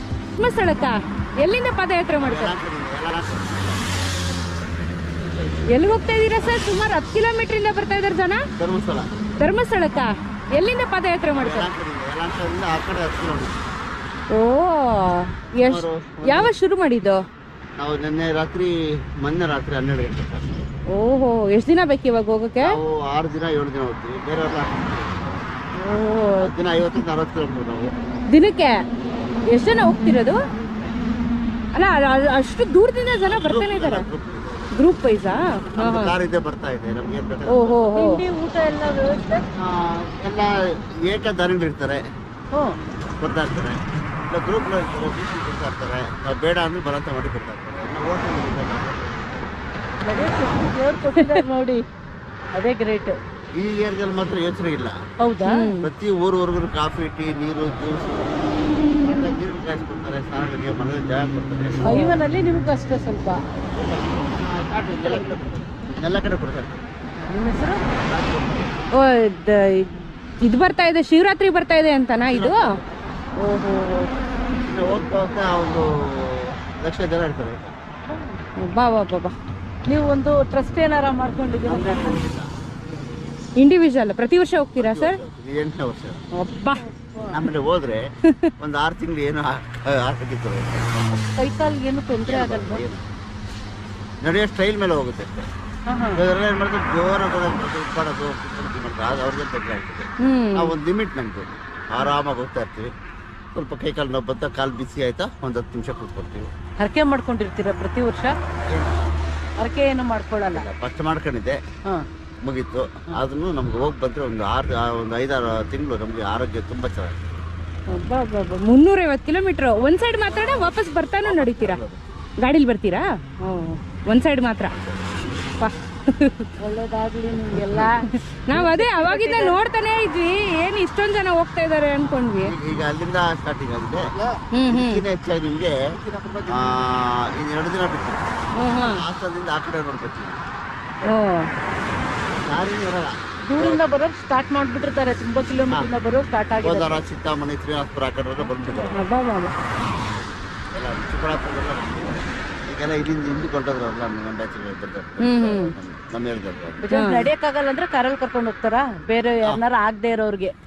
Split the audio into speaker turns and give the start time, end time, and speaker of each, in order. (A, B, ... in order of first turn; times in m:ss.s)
0:00.4-0:02.6 A
0:02.2-0:03.9 B
0:05.7-0:08.4 A
0:08.6-0:09.1 B
0:09.4-0:11.7 A
0:11.4-0:13.6 B
0:14.3-0:17.2 A
0:15.6-0:16.5 B
0:17.8-0:20.7 B
0:20.9-0:22.8 A
0:22.6-0:25.5 B
0:25.8-0:26.5 A
0:26.4-0:27.9 B
0:28.3-0:28.8 A
0:29.5-0:30.4 A
0:31.8-0:34.1 A
0:33.3-0:34.8 B
0:34.7-0:36.1 A
0:35.7-0:37.8 B
0:37.5-0:38.2 A
0:38.0-0:39.4 C
0:39.6-0:42.0 B
0:43.2-0:49.6 B
0:50.0-0:51.8 C
0:51.2-0:51.4 A
0:52.6-0:53.2 C
0:53.6-0:55.0 B
0:55.2-0:55.7 C
0:55.4-0:55.9 A
0:55.8-1:02.0 B
1:01.8-1:03.4 C
1:01.8-1:02.2 A
1:03.7-1:06.8 B
1:07.2-1:07.8 C
1:07.9-1:08.9 B
1:08.9-1:12.7 A
1:12.3-1:12.8 B
1:13.4-1:14.1 A
1:14.6-1:17.7 B
1:18.1-1:18.4 C
1:18.6-1:19.3 A
1:19.8-1:22.2 C
1:21.7-1:22.5 B
1:23.6-1:25.2 A
1:24.8-1:26.2 B
1:26.4-1:26.8 A
1:26.8-1:27.4 C
1:27.3-1:28.0 B
1:28.6-1:31.3 B
1:31.4-1:32.8 C
1:32.2-1:33.0 B
1:34.2-1:35.5 B
1:35.9-1:36.2 C
1:36.2-1:42.9 B
1:40.2-1:40.8 A
1:43.5-1:46.5 B
1:46.8-1:48.3 C
1:48.7-1:49.0 B
1:49.6-1:50.7 C
1:50.5-1:51.6 B
1:52.4-1:57.2 B
1:57.9-2:01.8 A
2:00.4-2:00.7 B
2:01.2-2:02.0 B
2:02.4-2:03.0 A
2:04.1-2:04.7 A
2:05.6-2:06.5 A
2:06.6-2:09.6 C
2:08.3-2:12.5 A
2:12.3-2:14.1 B
2:14.5-2:15.0 A
2:14.7-2:15.8 B
2:16.2-2:16.5 C
2:16.5-2:18.3 B
2:18.6-2:19.0 A
2:18.9-2:20.4 B
2:21.0-2:21.5 A
2:22.3-2:23.8 B
2:23.5-2:27.0 C
2:26.6-2:29.0 B
2:28.4-2:29.0 C
2:28.9-2:29.5 A
2:30.7-2:36.8 B
2:35.2-2:35.7 A
2:36.8-2:40.5 C
2:36.9-2:37.3 A